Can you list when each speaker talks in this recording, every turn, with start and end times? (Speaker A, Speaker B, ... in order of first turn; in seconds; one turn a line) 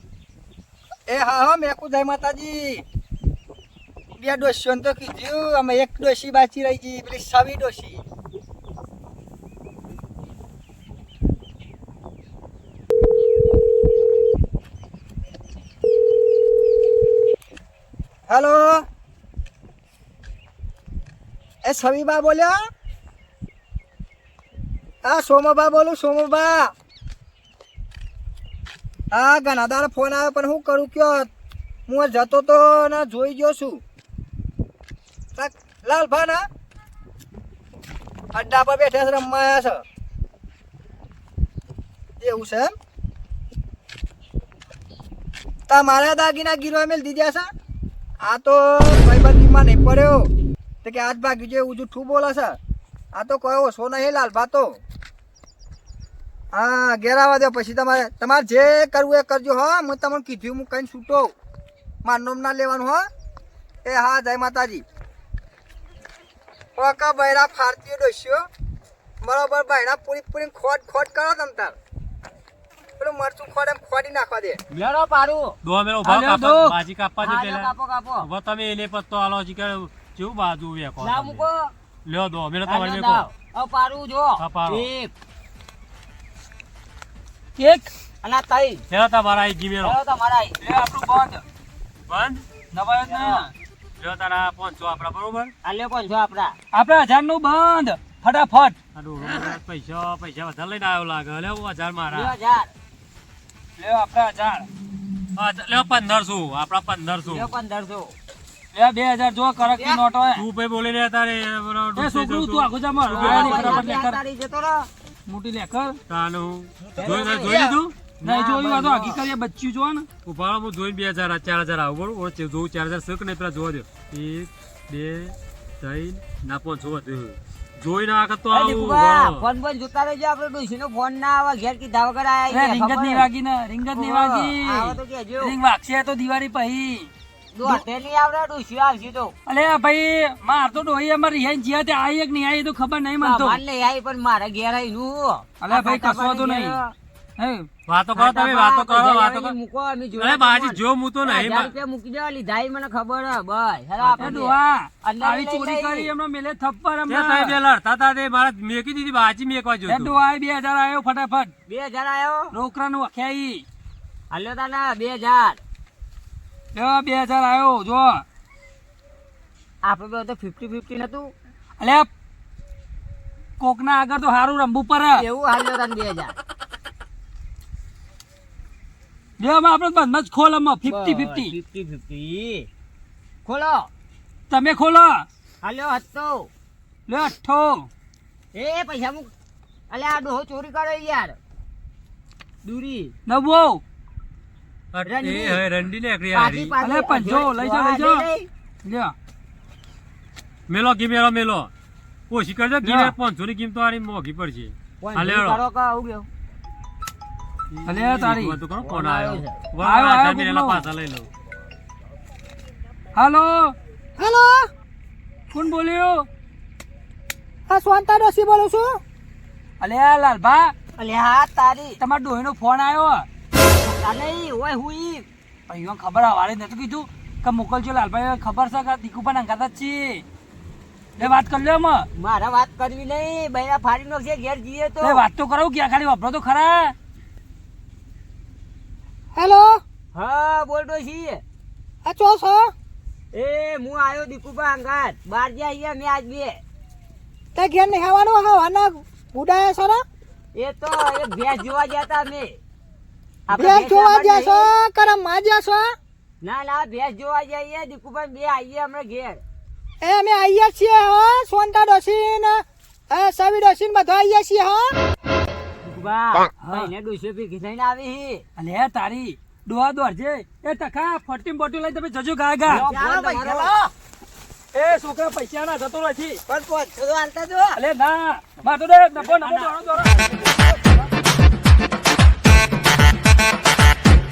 Speaker A: 1.1-2.8
Speaker A: 4.2-8.0
Speaker A: 18.3-18.8
Speaker A: 21.6-22.6
Speaker A: 25.0-26.7
Speaker A: 29.1-31.3
Speaker A: 31.9-33.8
Speaker A: 35.4-36.4
Speaker A: 38.3-39.8
Speaker A: 42.2-42.7
Speaker A: 45.7-47.5
Speaker A: 48.2-50.3
Speaker A: 50.8-52.6
Speaker A: 53.1-54.8
Speaker A: 56.5-61.3
Speaker A: 62.0-63.0
Speaker A: 63.8-64.8
Speaker A: 66.8-68.5
Speaker A: 69.2-71.8
Speaker A: 73.0-74.6
Speaker B: 74.7-75.6
Speaker C: 75.6-81.5
Speaker D: 76.0-76.8
Speaker B: 77.2-78.3
Speaker B: 81.0-81.7
Speaker C: 82.0-83.2
Speaker B: 82.7-85.1
Speaker C: 84.4-84.9
Speaker D: 87.6-87.9
Speaker B: 88.2-88.8
Speaker C: 88.9-90.0
Speaker B: 89.8-90.6
Speaker D: 90.6-91.4
Speaker C: 92.1-92.4
Speaker D: 92.7-93.5
Speaker B: 93.1-93.5
Speaker C: 94.0-95.5
Speaker B: 95.6-96.5
Speaker D: 96.7-98.8
Speaker C: 98.9-102.3
Speaker B: 102.1-102.7
Speaker D: 103.8-104.7
Speaker C: 105.4-107.5
Speaker B: 107.2-108.2
Speaker D: 108.7-110.4
Speaker B: 109.7-110.0
Speaker C: 110.3-113.9
Speaker D: 112.0-114.2
Speaker B: 113.1-114.9
Speaker D: 115.3-116.0
Speaker C: 116.1-117.9
Speaker B: 116.8-119.2
Speaker D: 118.2-120.1
Speaker C: 120.2-129.4
Speaker B: 128.5-133.3
Speaker D: 132.5-137.1
Speaker B: 133.9-135.6
Speaker B: 137.5-139.3
Speaker D: 139.5-143.6
Speaker B: 143.2-146.9
Speaker D: 145.6-146.8
Speaker D: 147.4-147.7
Speaker C: 147.9-149.5
Speaker B: 148.1-156.1
Speaker C: 150.2-151.7
Speaker C: 154.0-154.4
Speaker D: 154.2-157.5
Speaker C: 157.1-160.2
Speaker D: 159.9-161.5
Speaker B: 161.7-162.5
Speaker D: 162.5-163.6
Speaker B: 164.3-165.6
Speaker D: 166.7-168.2
Speaker B: 169.8-171.3
Speaker D: 171.8-172.1
Speaker D: 173.6-175.2
Speaker B: 175.1-176.3
Speaker D: 179.4-181.5
Speaker B: 180.8-182.7
Speaker B: 183.4-183.9
Speaker D: 184.5-185.2
Speaker B: 185.6-186.5
Speaker D: 187.1-187.9
Speaker B: 188.5-189.3
Speaker B: 189.9-191.4
Speaker B: 192.6-193.1
Speaker D: 193.2-193.8
Speaker C: 194.9-196.7
Speaker B: 195.0-195.6
Speaker B: 196.3-198.5
Speaker D: 196.8-198.3
Speaker D: 198.8-199.1
Speaker C: 200.7-201.7
Speaker C: 202.3-205.6
Speaker D: 202.8-203.1
Speaker B: 205.0-206.3
Speaker C: 207.7-211.3
Speaker D: 207.8-208.6
Speaker B: 208.8-209.6
Speaker D: 209.8-210.8
Speaker D: 213.2-213.7
Speaker A: 214.2-214.7
Speaker D: 215.5-216.2
Speaker A: 217.7-219.0
Speaker D: 219.8-220.7
Speaker B: 221.0-222.0
Speaker D: 222.0-223.3
Speaker B: 223.8-225.3
Speaker D: 225.7-230.2
Speaker D: 231.2-232.1
Speaker B: 232.1-235.2
Speaker D: 235.0-236.9
Speaker A: 239.3-239.8
Speaker B: 240.1-241.4
Speaker A: 242.0-242.7
Speaker B: 243.3-246.6
Speaker A: 247.5-250.0
Speaker B: 250.5-252.6
Speaker B: 253.5-254.7
Speaker A: 253.5-255.9
Speaker B: 256.4-259.4
Speaker A: 260.0-264.9
Speaker B: 265.8-268.4
Speaker D: 266.6-266.9
Speaker D: 268.6-272.9
Speaker B: 272.7-273.7
Speaker A: 272.7-273.9
Speaker D: 274.7-276.4
Speaker A: 276.5-277.8
Speaker D: 277.7-280.4